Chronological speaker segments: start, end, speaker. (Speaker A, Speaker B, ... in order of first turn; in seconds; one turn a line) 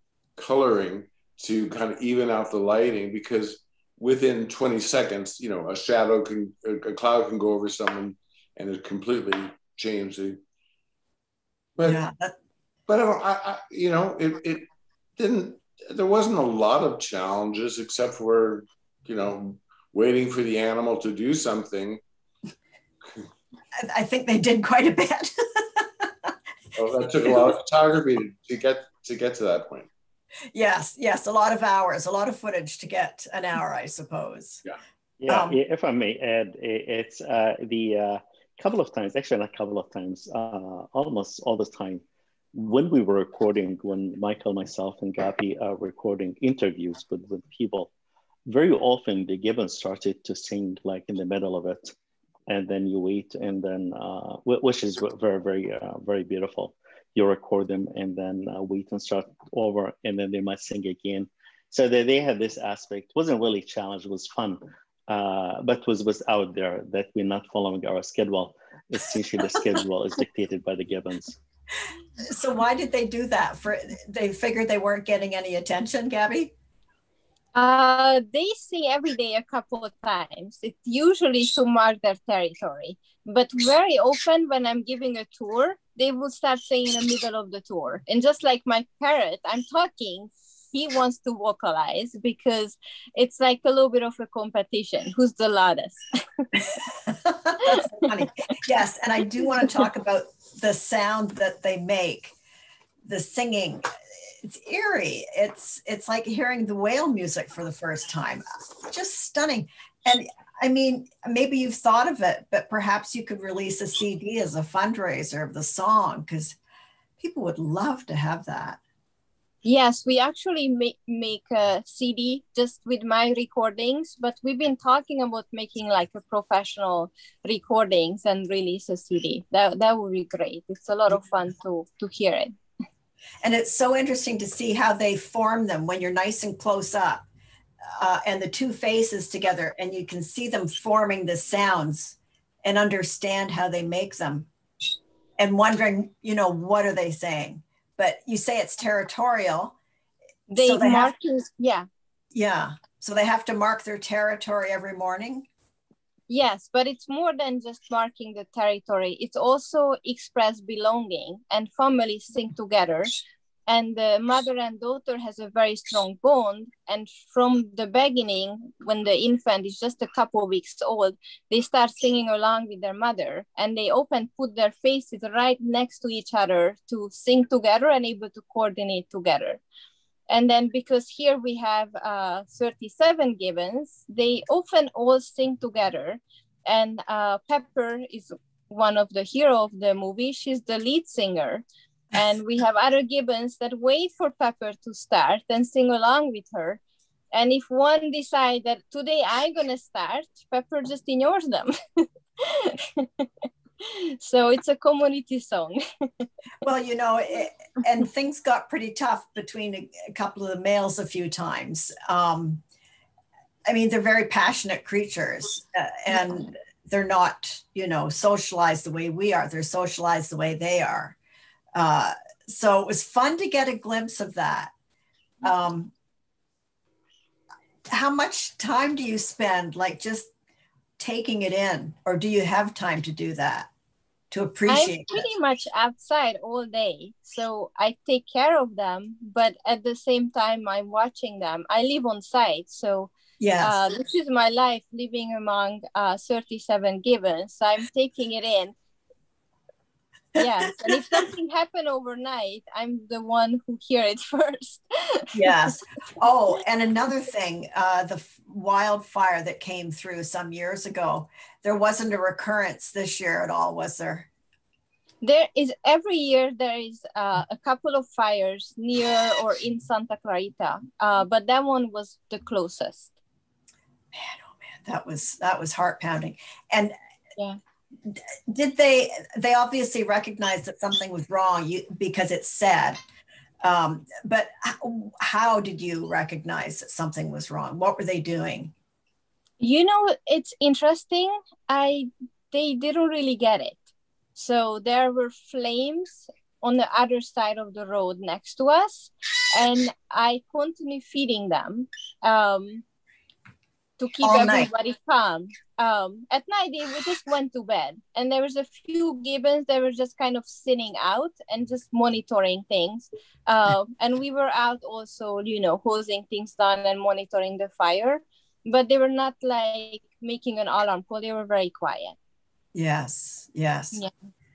Speaker A: 0.4-10.4
Speaker B: 11.8-12.3
Speaker A: 12.9-22.0
Speaker B: 23.8-26.3
Speaker A: 26.8-29.9
Speaker B: 30.5-34.6
Speaker C: 35.2-42.0
Speaker B: 35.3-35.6
Speaker C: 42.5-47.9
Speaker C: 48.5-51.9
Speaker C: 52.5-71.4
Speaker B: 72.3-76.5
Speaker D: 77.5-96.6
Speaker B: 97.1-102.3
Speaker D: 97.6-98.1
Speaker B: 103.0-103.8
Speaker B: 104.4-116.6
Speaker B: 117.2-118.8
Speaker D: 119.6-132.5
Speaker B: 133.4-137.2
Speaker B: 138.0-144.5
Speaker B: 145.4-149.8
Speaker D: 150.5-151.9
Speaker B: 150.6-151.1
Speaker B: 152.3-155.5
Speaker D: 156.3-163.1
Speaker D: 163.7-179.6
Speaker D: 180.3-196.8
Speaker D: 197.3-203.3
Speaker D: 203.8-206.3
Speaker B: 206.6-212.6
Speaker B: 213.7-221.2
Speaker B: 221.7-224.7
Speaker B: 225.4-225.9
Speaker B: 227.9-230.3
Speaker B: 231.0-233.7
Speaker B: 234.3-235.3
Speaker D: 234.7-248.7
Speaker B: 243.4-243.8
Speaker D: 250.3-255.6
Speaker B: 255.3-264.3
Speaker D: 265.2-273.1
Speaker B: 274.1-276.9
Speaker B: 278.1-283.0
Speaker B: 283.6-288.7
Speaker D: 289.6-293.8
Speaker D: 294.4-302.8
Speaker D: 304.0-322.1
Speaker B: 304.2-304.7
Speaker B: 322.7-324.0